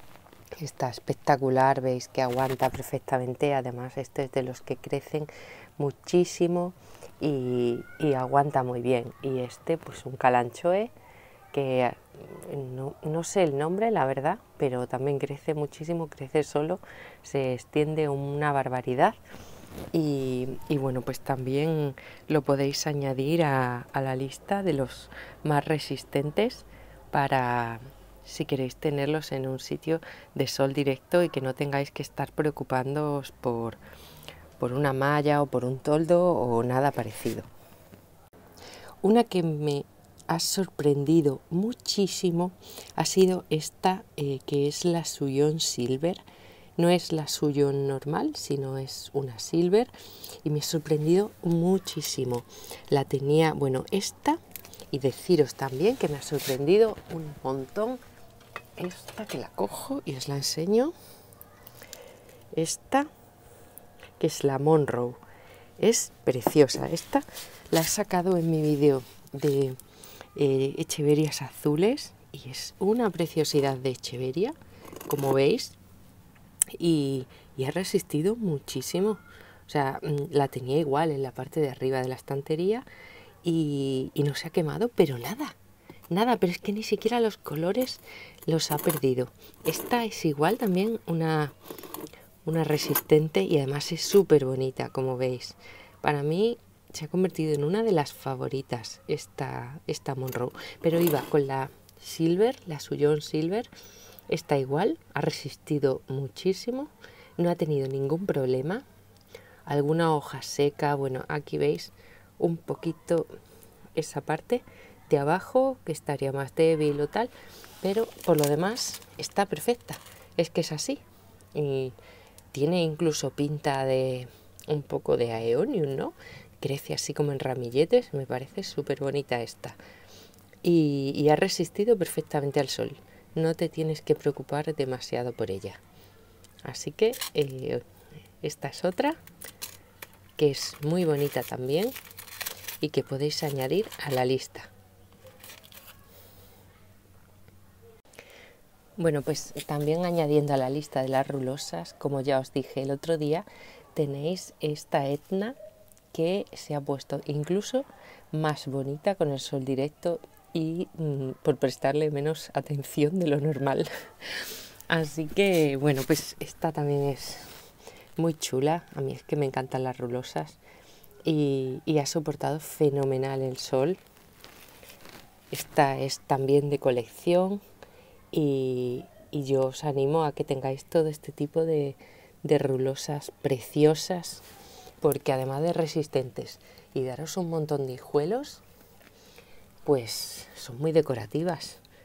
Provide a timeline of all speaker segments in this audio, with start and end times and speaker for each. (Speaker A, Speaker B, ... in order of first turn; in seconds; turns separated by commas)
Speaker A: 0.6-10.9, Speaker A: 11.5-19.2, Speaker A: 19.9-33.8, Speaker A: 34.6-37.5, Speaker A: 39.0-46.2, Speaker A: 46.8-49.9, Speaker A: 50.4-54.4, Speaker A: 54.9-58.0, Speaker A: 58.8-60.9, Speaker A: 62.5-63.1, Speaker A: 64.2-65.2, Speaker A: 65.8-69.8, Speaker A: 70.3-74.5, Speaker A: 75.1-75.8, Speaker A: 76.7-82.8, Speaker A: 83.4-85.6, Speaker A: 86.1-91.5, Speaker A: 92.4-103.7, Speaker A: 104.3-108.8, Speaker A: 109.7-113.3, Speaker A: 114.0-121.0, Speaker A: 121.5-121.9, Speaker A: 122.5-129.8, Speaker A: 130.6-135.8, Speaker A: 136.6-137.8, Speaker A: 138.4-139.2, Speaker A: 140.4-141.9, Speaker A: 142.8-144.7, Speaker A: 149.0-155.6, Speaker A: 156.1-167.5, Speaker A: 168.2-170.6, Speaker A: 171.2-174.0, Speaker A: 175.5-177.6, Speaker A: 178.3-184.4, Speaker A: 185.0-188.6, Speaker A: 189.8-191.8